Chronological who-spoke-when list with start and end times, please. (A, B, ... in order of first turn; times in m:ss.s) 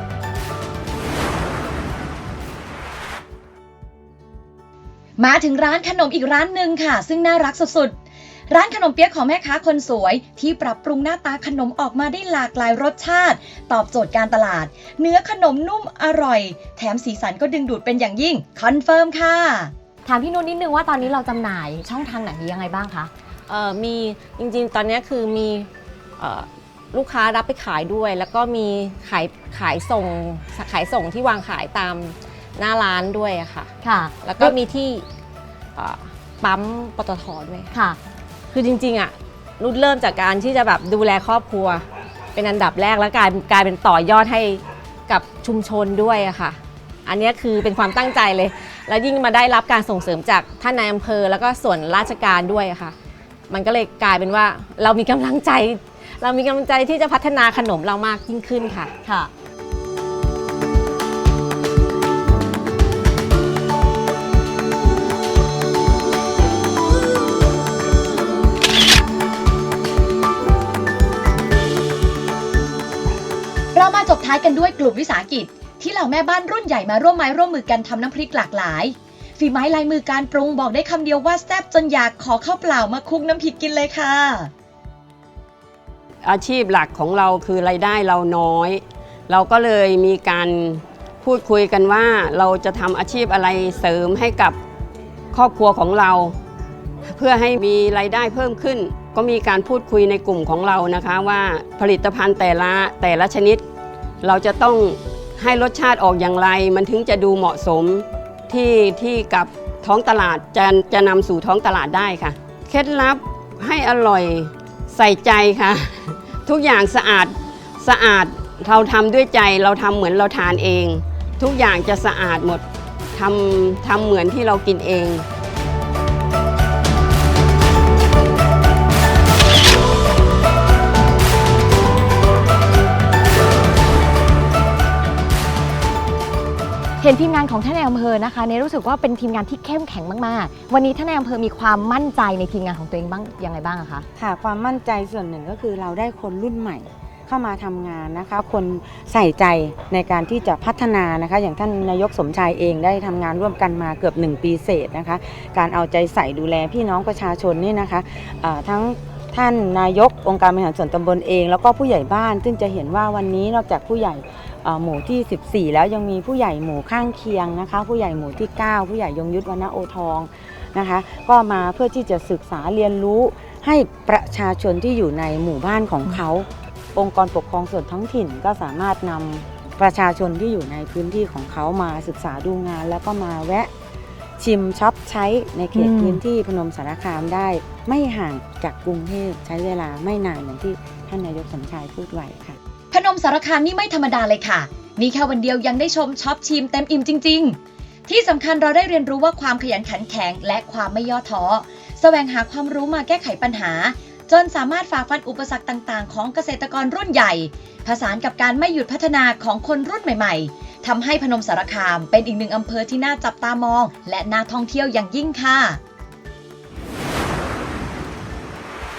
0:05.2-0:08.0 A
0:08.5-0:19.7 A
0:20.0-0:23.1 B
0:23.5-0:33.7 C
0:33.8-0:34.6 B
0:34.2-0:35.0 C
0:35.8-0:37.7 C
0:37.7-0:38.0 B
0:38.5-0:52.9 C
0:53.5-0:58.9 C
0:59.0-0:59.3 B
1:13.7-1:24.5 A
1:26.2-1:34.6 D
1:35.3-1:36.4 D
1:37.1-1:43.6 D
1:44.2-2:02.6 D
2:03.1-2:05.2 D
2:17.0-2:24.1 B
2:24.2-3:03.7 E
3:04.4-3:12.6 E
3:05.7-3:06.2 B
3:12.9-3:35.8 A